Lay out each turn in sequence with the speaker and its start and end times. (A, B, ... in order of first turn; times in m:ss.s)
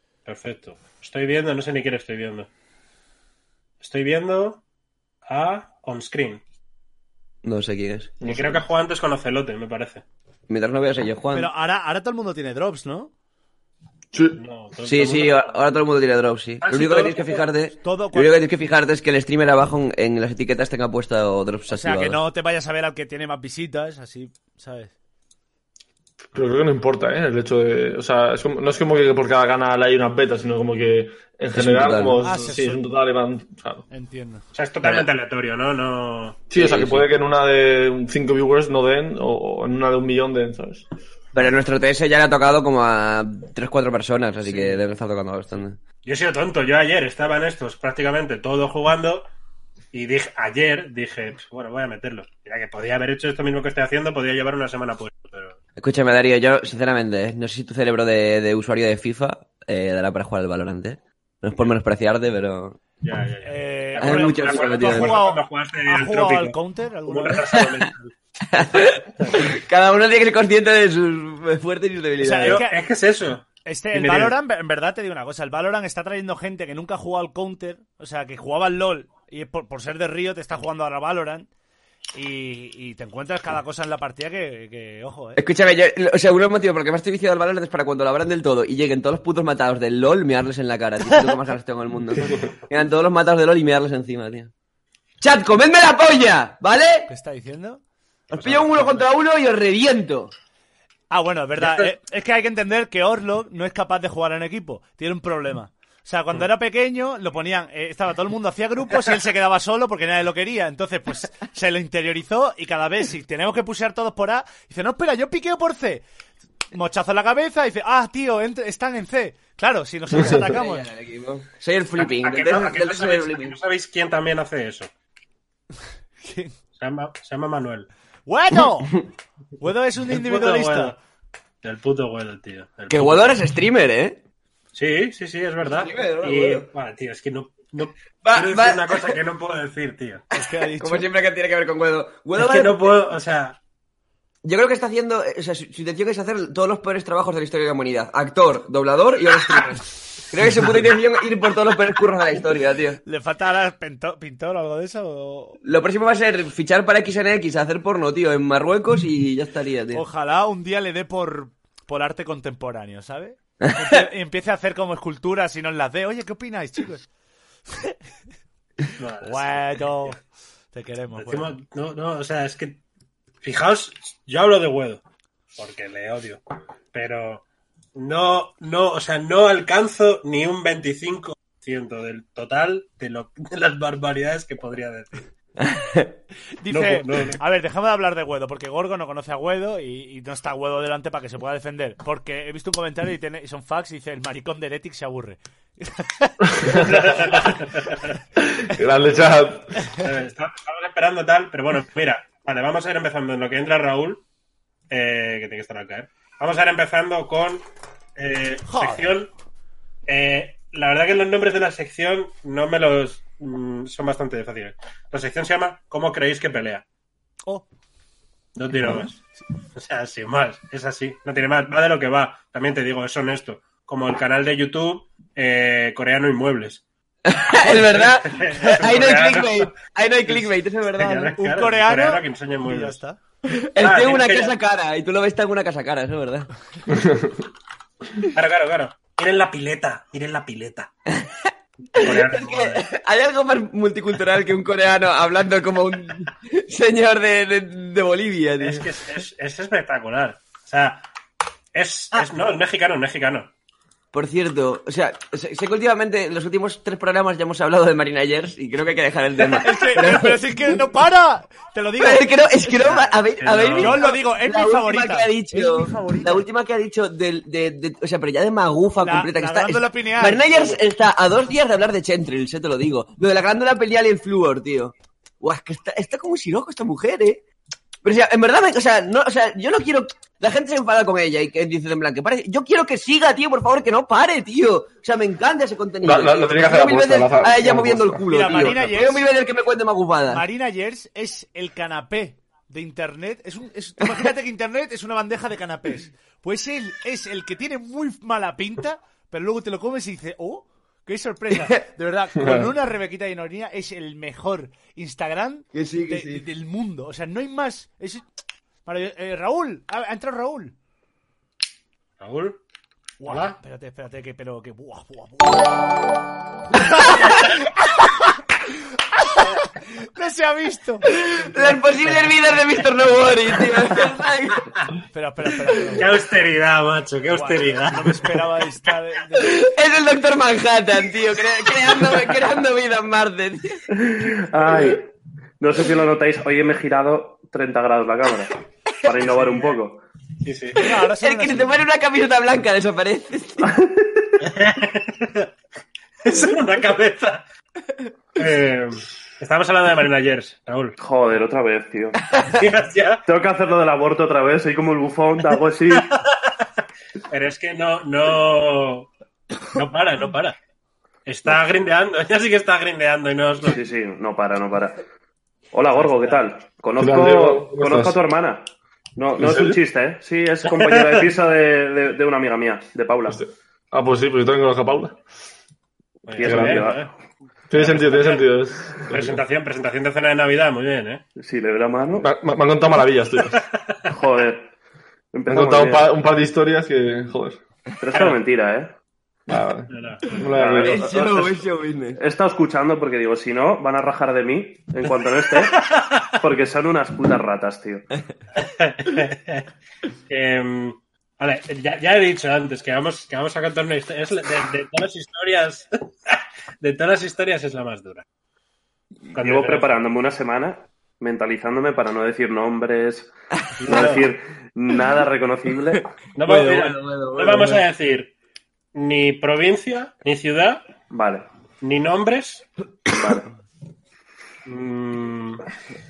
0:00.3-0:02.5 A
0:03.8-0:04.6 A
0:05.3-0:06.4 A
0:07.4-0:08.2 B
0:08.2-0:08.6 C
0:08.3-0:10.0 A
0:10.5-0:11.5 B
0:11.3-0:13.1 D
0:14.1-0:14.4 C
0:14.4-0:15.7 A
0:14.9-0:22.2 B
0:16.6-0:17.4 A
0:17.8-0:18.4 D
0:21.7-0:24.9 D
0:26.3-0:33.9 C
0:31.6-0:32.2 B
0:32.2-0:32.8 D
0:33.9-0:34.4 D
0:34.5-0:36.4 A
0:34.8-0:35.1 B
0:36.5-0:40.8 C
0:36.5-0:37.1 B
0:41.3-0:45.8 B
0:46.0-0:49.3 A
0:49.9-0:55.6 A
0:55.8-1:02.8 B
1:03.0-1:08.1 A
1:03.4-1:07.4 D
1:04.0-1:05.2 B
1:08.5-1:12.6 B
1:08.8-1:09.4 A
1:12.2-1:12.8 D
1:12.4-1:14.4 A
1:13.6-1:21.5 D
1:22.2-1:25.4 D
1:25.4-1:34.5 B
1:35.2-1:37.1 B
1:37.1-1:37.8 D
1:38.3-1:40.3 B
1:38.4-1:39.0 A
1:41.1-1:56.0 D
1:41.6-1:41.9 A
1:56.7-2:00.9 D
2:00.2-2:03.6 B
2:02.0-2:04.9 A
2:06.2-2:06.5 D
2:06.8-2:07.9 A
2:08.3-2:09.0 D
2:09.6-2:11.0 D
2:10.1-2:11.0 A
2:11.6-2:13.4 A
2:12.9-2:14.2 B
2:14.7-2:20.2 A
2:15.6-2:16.7 B
2:18.2-2:19.2 B
2:20.3-2:21.1 D
2:20.4-2:23.0 B
2:22.4-2:23.6 A
2:24.4-2:33.0 B
2:33.0-2:35.6 D
2:35.6-2:40.0 B
2:39.9-2:47.1 D
2:49.0-2:49.9 A
2:49.2-2:50.2 D
2:50.7-2:51.5 D
2:51.2-2:52.8 A
2:53.4-2:55.0 A
2:55.6-2:56.4 A
2:56.9-2:57.4 A
2:58.0-3:05.3 A
3:05.6-3:06.1 B
3:06.6-3:16.3 D
3:06.7-3:07.4 A
3:16.6-3:16.9 C
3:16.7-3:18.1 A
3:18.4-3:19.7 C
3:20.0-3:24.2 A
3:24.9-3:27.6 A
3:28.2-3:29.3 A
3:28.7-3:29.0 D
3:30.1-3:36.8 A
3:38.6-3:39.2 A
3:39.8-3:46.8 A
3:47.3-3:51.4 B
3:47.6-3:49.7 A
3:50.2-3:53.0 A
3:51.4-3:53.2 D
3:53.5-3:56.5 B
3:53.8-3:54.5 A
3:56.9-3:57.4 C
3:58.3-4:00.9 A
4:01.1-4:08.9 B
4:02.0-4:02.8 A
4:08.6-4:11.0 A
4:11.7-4:13.5 A
4:14.1-4:20.4 B
4:19.6-4:23.1 D
4:22.0-4:37.4 B
4:23.4-4:24.1 A
4:23.8-4:26.5 D
4:29.0-4:30.8 D
4:38.0-4:50.4 B
4:46.0-4:48.6 C
4:48.3-4:49.2 D
4:50.3-5:08.2 D
4:54.0-4:54.3 B
5:02.4-5:02.7 C
5:05.7-5:06.4 B
5:08.8-5:10.7 D
5:12.2-5:12.6 A
5:13.2-5:15.7 D
5:13.3-5:13.6 A
5:16.7-5:18.0 D
5:19.1-5:21.1 D
5:21.1-5:24.7 B
5:25.1-5:26.1 D
5:26.0-5:28.4 A
5:27.3-5:29.6 D
5:29.4-5:33.9 B
5:34.1-5:35.1 E
5:35.6-5:38.5 E
5:39.0-5:40.0 E
5:39.2-5:39.8 A
5:40.4-5:40.8 A
5:40.8-5:43.7 B
5:40.8-5:41.8 D
5:43.7-5:44.3 E
5:44.4-5:45.5 A
5:46.2-5:47.4 A
5:48.4-5:51.0 A
5:51.0-5:52.2 E
5:52.6-5:53.2 A
5:53.3-5:56.1 E
5:57.3-5:59.1 A
5:59.7-6:00.6 A
6:01.3-6:03.8 A
6:03.7-6:05.0 E
6:05.7-6:13.4 E
6:05.9-6:06.4 A
6:07.0-6:08.1 C
6:09.4-6:09.8 C
6:10.7-6:11.2 A
6:13.3-6:15.2 C
6:16.3-6:17.1 A
6:16.3-6:17.1 E
6:16.4-6:17.0 C
6:17.7-6:19.4 C
6:17.7-6:21.2 A
6:21.4-6:22.3 E
6:22.2-6:23.6 C
6:24.1-6:24.7 E
6:25.3-6:26.1 E
6:25.5-6:27.6 C
6:28.0-6:28.9 E
6:29.5-6:31.2 C
6:29.9-6:30.4 A
6:30.6-6:31.4 E
6:30.6-6:32.2 B
6:32.2-6:35.8 E
6:36.4-6:38.0 E
6:38.6-6:39.7 A
6:40.3-6:48.2 A
6:49.4-6:53.3 E
6:49.4-6:49.9 A
6:53.8-6:54.3 A
6:53.8-6:54.1 B
6:53.9-6:56.0 E
6:56.4-6:58.3 A
6:56.4-6:57.8 B
6:59.0-7:00.8 A
7:01.1-7:01.5 E
7:01.8-7:02.7 A
7:03.1-7:03.5 E
7:04.7-7:05.6 A